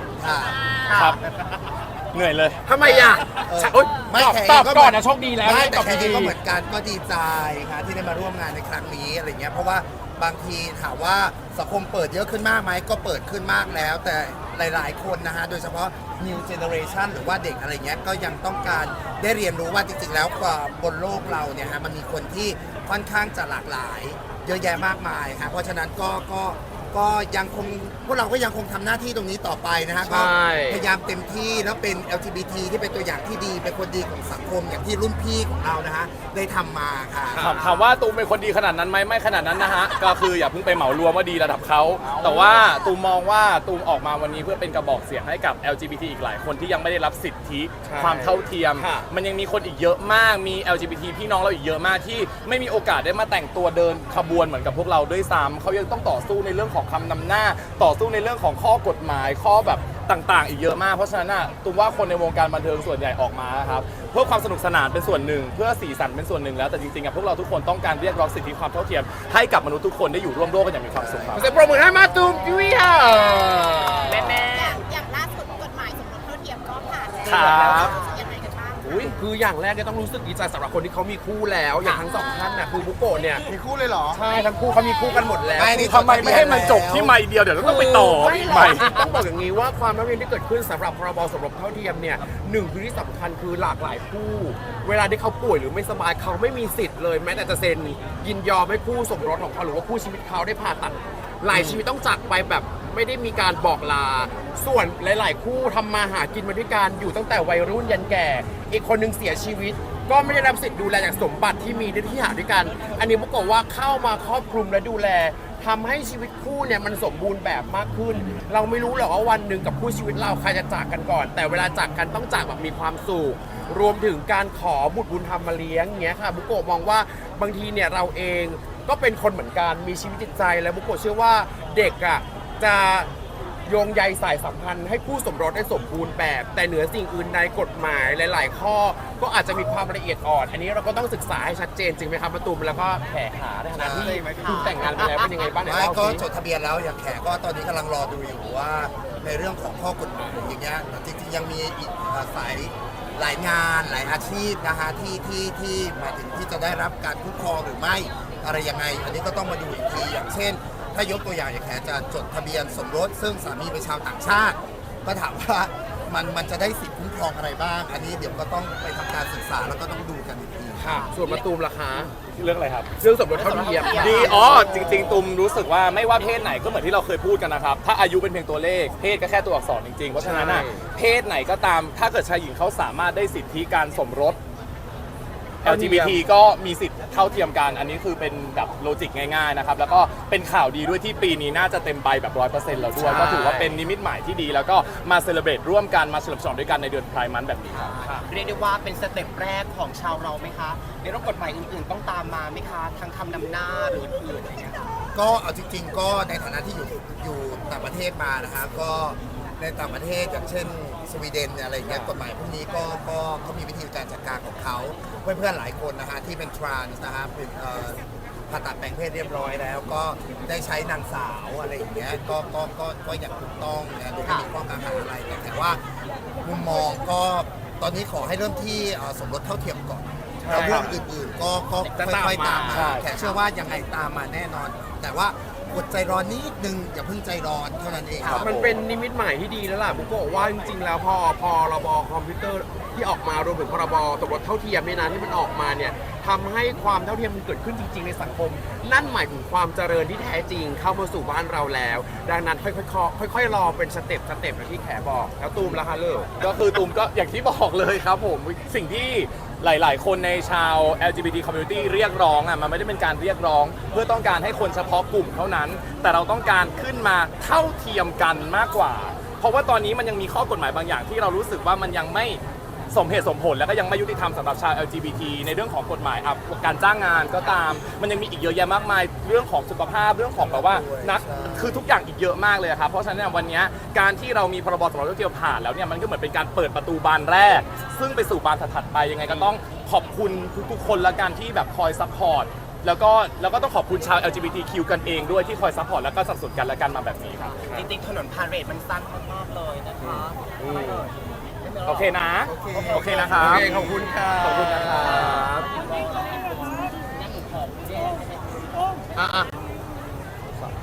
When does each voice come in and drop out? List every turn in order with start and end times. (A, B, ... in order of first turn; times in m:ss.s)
0:00.2-0:00.6 A
0:00.8-0:01.2 B
0:00.9-0:01.2 C
0:02.1-0:03.2 C
0:02.6-0:06.3 D
0:02.8-0:37.7 A
0:30.0-0:30.8 D
0:37.3-0:37.8 D
0:37.4-1:11.5 C
0:42.0-0:42.6 D
0:47.8-0:49.1 D
1:10.9-1:11.4 A
1:11.3-1:14.4 D
1:14.1-1:14.4 B
1:14.1-1:14.6 C
1:14.5-1:19.0 E
1:17.2-1:18.3 B
1:17.2-1:18.0 C
1:18.8-1:19.1 C
1:19.0-1:23.5 D
1:23.5-1:24.2 A
1:24.1-1:26.6 D
1:25.5-1:27.1 A
1:25.6-1:29.0 C
1:27.5-2:13.1 D
1:41.5-1:41.8 C
2:13.6-2:26.2 D
2:23.7-2:24.2 A
2:24.0-2:25.5 B
2:25.6-2:51.0 A
2:50.8-2:52.1 D
2:50.9-2:51.4 B
2:52.3-2:52.9 C
2:53.0-2:55.2 D
2:53.3-2:55.0 B
2:53.9-3:04.4 C
3:00.1-3:00.9 D
3:05.6-3:18.2 C
3:05.6-3:06.2 D
3:13.0-3:13.8 D
3:17.7-3:24.8 B
3:25.1-3:45.8 A
3:44.2-3:44.5 B
3:46.4-3:58.5 A
3:50.4-3:50.9 D
3:50.5-3:51.0 C
3:51.9-3:53.0 D
3:52.7-3:53.1 C
3:53.1-3:53.4 B
3:58.2-3:58.8 C
3:58.4-4:16.3 D
4:16.4-4:57.6 C
4:40.4-4:41.8 A
4:57.5-4:57.9 D
4:57.7-5:08.9 B
5:00.0-5:01.0 D
5:01.8-5:03.7 C
5:03.4-5:05.7 D
5:04.4-5:05.5 C
5:09.1-5:09.5 D